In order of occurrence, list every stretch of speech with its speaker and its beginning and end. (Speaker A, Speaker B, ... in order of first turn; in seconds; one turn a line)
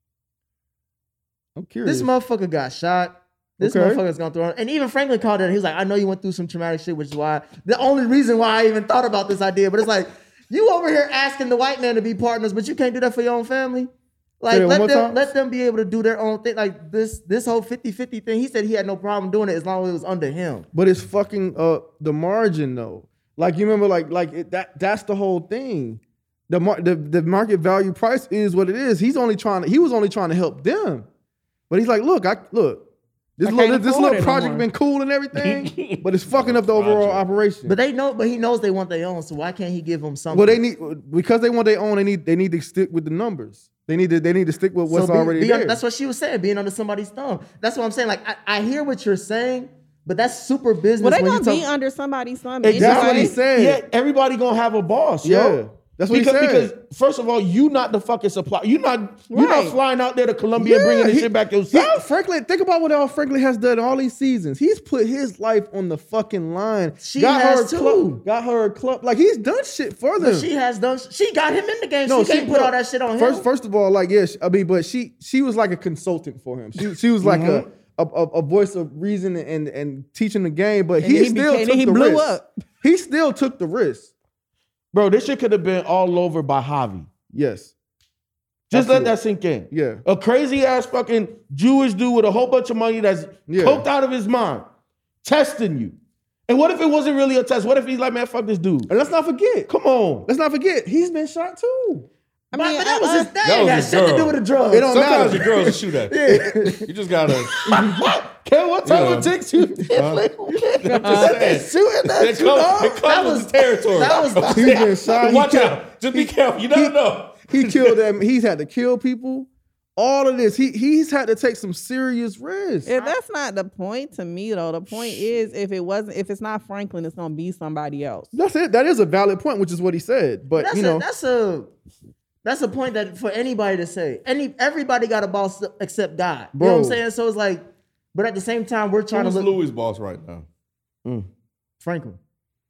Speaker A: 1.6-2.1
Speaker B: 1.8-20.7
Speaker A: 3.6-4.0
Speaker A: 14.5-15.3
Speaker A: 20.7-31.1
Speaker A: 31.7-32.9
Speaker A: 33.4-37.8
Speaker C: 33.4-34.7
Speaker D: 35.3-37.3
Speaker B: 37.6-40.6
Speaker A: 40.3-45.8
Speaker B: 44.9-51.7
Speaker C: 51.0-53.4
Speaker E: 52.6-62.0
Speaker A: 52.7-53.8
Speaker A: 55.2-56.7
Speaker C: 59.3-59.8
Speaker A: 60.5-70.5
Speaker B: 67.0-68.2
Speaker B: 70.2-73.5
Speaker A: 72.0-84.1
Speaker E: 77.2-77.7
Speaker C: 81.0-82.5
Speaker E: 84.9-87.1
Speaker A: 87.3-87.7
Speaker A: 88.7-89.1
Speaker E: 88.7-94.7
Speaker A: 89.7-90.0
Speaker A: 93.5-93.8
Speaker E: 95.2-96.0
Speaker E: 96.5-98.9
Speaker A: 98.9-99.7
Speaker E: 99.7-100.3
Speaker A: 100.3-102.1
Speaker C: 102.5-103.3
Speaker B: 102.5-106.9
Speaker D: 103.4-107.6
Speaker A: 104.7-105.7
Speaker E: 107.7-112.3
Speaker D: 108.8-109.3
Speaker D: 109.9-118.0
Speaker C: 110.8-111.3
Speaker B: 111.1-114.9
Speaker A: 114.5-116.9
Speaker A: 117.5-122.9
Speaker C: 122.8-128.3
Speaker A: 124.9-125.3
Speaker A: 128.3-131.0
Speaker B: 130.6-131.7
Speaker B: 132.4-139.5
Speaker A: 136.5-137.0
Speaker D: 139.1-140.4
Speaker B: 141.8-142.2